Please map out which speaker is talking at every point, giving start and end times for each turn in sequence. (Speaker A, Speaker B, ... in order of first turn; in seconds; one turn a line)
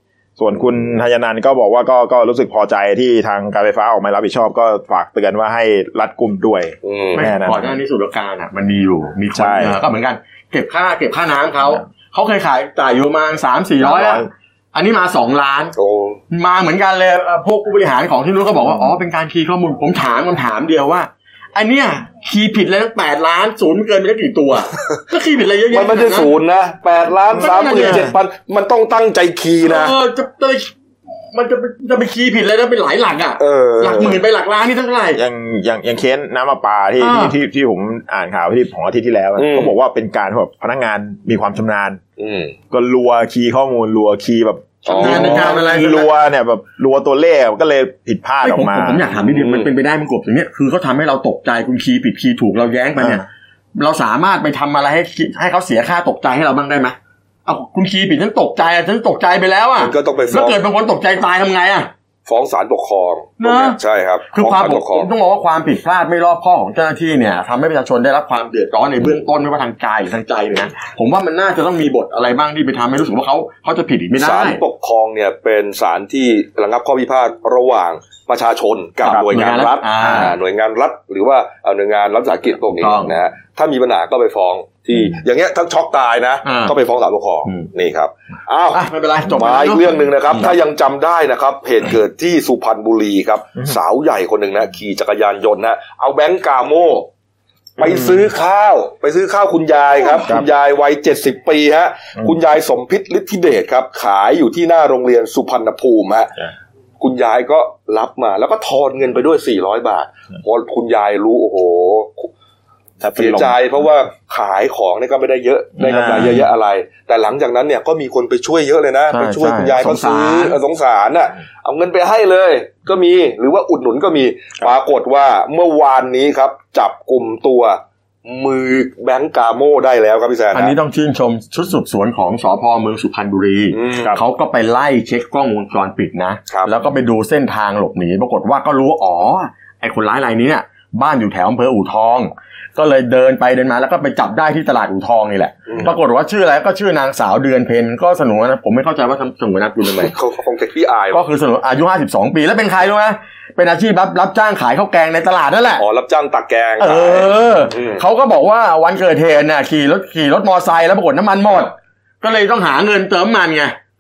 Speaker A: 0.4-7.7
Speaker B: 6.8-7.3
Speaker C: 7.1-15.8
Speaker A: 9.3-9.8
Speaker A: 13.8-14.3
Speaker B: 15.8-16.2
Speaker C: 16.3-26.4
Speaker B: 25.7-30.0
Speaker C: 27.3-28.2
Speaker A: 27.5-28.0
Speaker C: 29.6-30.7
Speaker C: 31.3-35.2
Speaker B: 33.4-34.2
Speaker A: 35.1-42.0
Speaker C: 37.0-37.4
Speaker B: 39.4-39.8
Speaker B: 42.2-42.5
Speaker A: 42.7-49.1
Speaker B: 44.9-45.8
Speaker C: 45.0-46.1
Speaker C: 48.4-61.9
Speaker B: 49.1-49.7
Speaker B: 59.8-60.6
Speaker B: 62.3-65.1
Speaker C: 63.4-63.8
Speaker C: 64.3-74.6
Speaker B: 74.2-97.1
Speaker C: 79.0-80.3
Speaker C: 82.8-83.2
Speaker C: 86.4-86.8
Speaker C: 88.7-90.5
Speaker B: 97.8-106.3
Speaker A: 97.8-98.2
Speaker A: 100.2-100.5
Speaker B: 107.0-112.3
Speaker A: 113.0-113.5
Speaker B: 113.1-130.8
Speaker A: 115.8-116.4
Speaker C: 115.8-116.5
Speaker C: 119.1-120.6
Speaker C: 130.5-150.1
Speaker B: 133.7-134.2
Speaker B: 136.5-136.7
Speaker B: 145.7-145.9
Speaker B: 150.0-151.2
Speaker C: 151.1-155.8
Speaker B: 155.8-158.0
Speaker C: 156.8-163.8